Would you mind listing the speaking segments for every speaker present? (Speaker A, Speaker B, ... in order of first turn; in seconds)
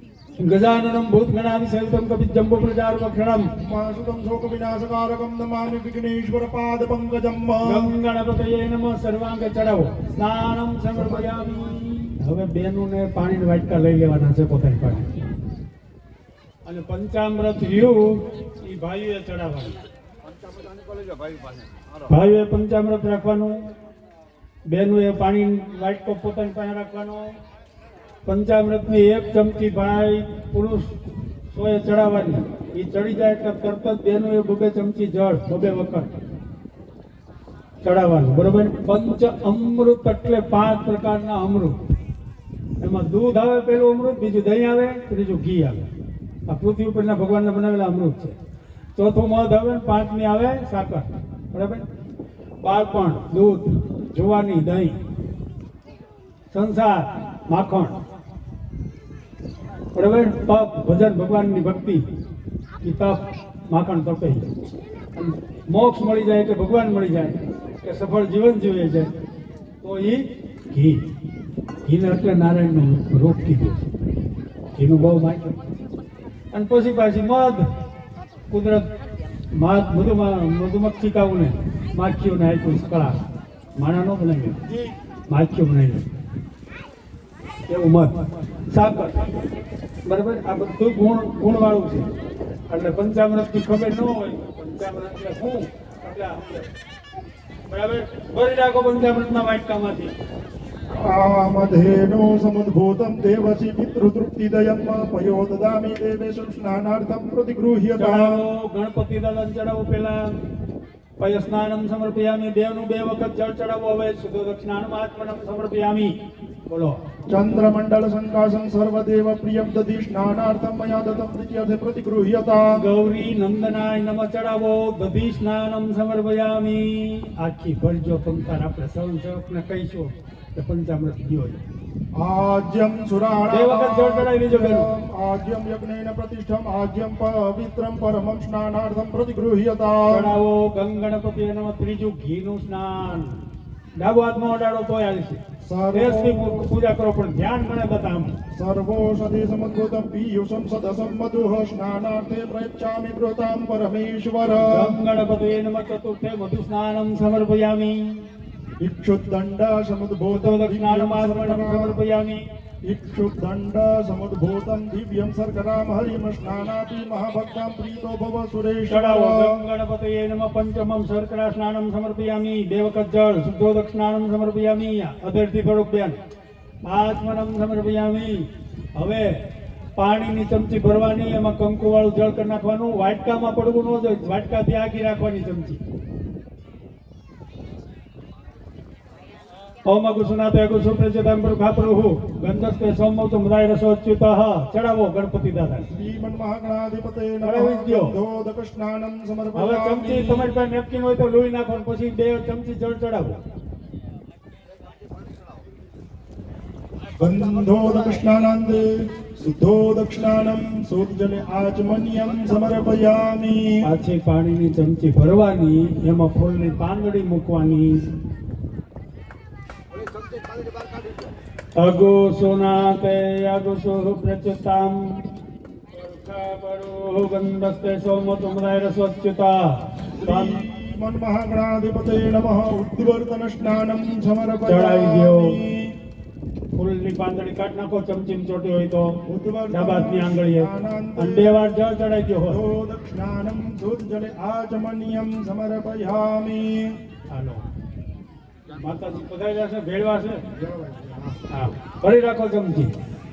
Speaker A: 0.4-3.5, 7.6-15.1, 16.6-19.8, 22.1-23.6, 24.6-27.4, 28.2-30.9, 31.5-36.1, 37.8-41.8, 42.8-45.8, 46.5-48.4, 49.0-51.9, 52.6-55.0, 56.5-58.0, 59.9-62.0, 62.8-64.5, 65.2-69.1, 69.8-71.0, 71.8-73.9, 74.8-75.6, 76.5-77.7, 78.5-78.9, 79.5-83.2, 83.8-84.6, 85.3-86.1, 87.7-89.2, 90.0-92.1, 92.7-96.7, 97.7-100.1, 108.0-110.2, 111.2-116.1, 116.7-117.0, 122.7-131.6, 133.5-134.9, 140.1-143.4, 144.0-145.4, 145.9-148.3, 154.6-158.1, 160.3-162.4, 168.9-176.2, 176.9-179.3, 179.9-185.8, 189.8-195.9, 197.4-198.1, 199.5-203.4, 213.8-218.0, 221.8-225.0, 225.9-229.7, 230.2-230.6, 234.7-235.6, 236.7-239.1, 239.7-242.6, 247.3-247.6, 248.7-250.4, 251.5-252.9
Speaker B: 3.6-7.9, 10.9-11.4, 100.9-108.4, 117.3-122.8, 132.1-140.3, 145.6-146.7, 148.5-154.9, 158.8-162.0, 162.8-169.6, 195.9-200.5, 207.2-213.8, 230.2-235.9, 239.2-241.7, 242.5-247.0, 250.5-251.4
Speaker C: 20.2-21.9, 204.9-205.4, 219.9-221.3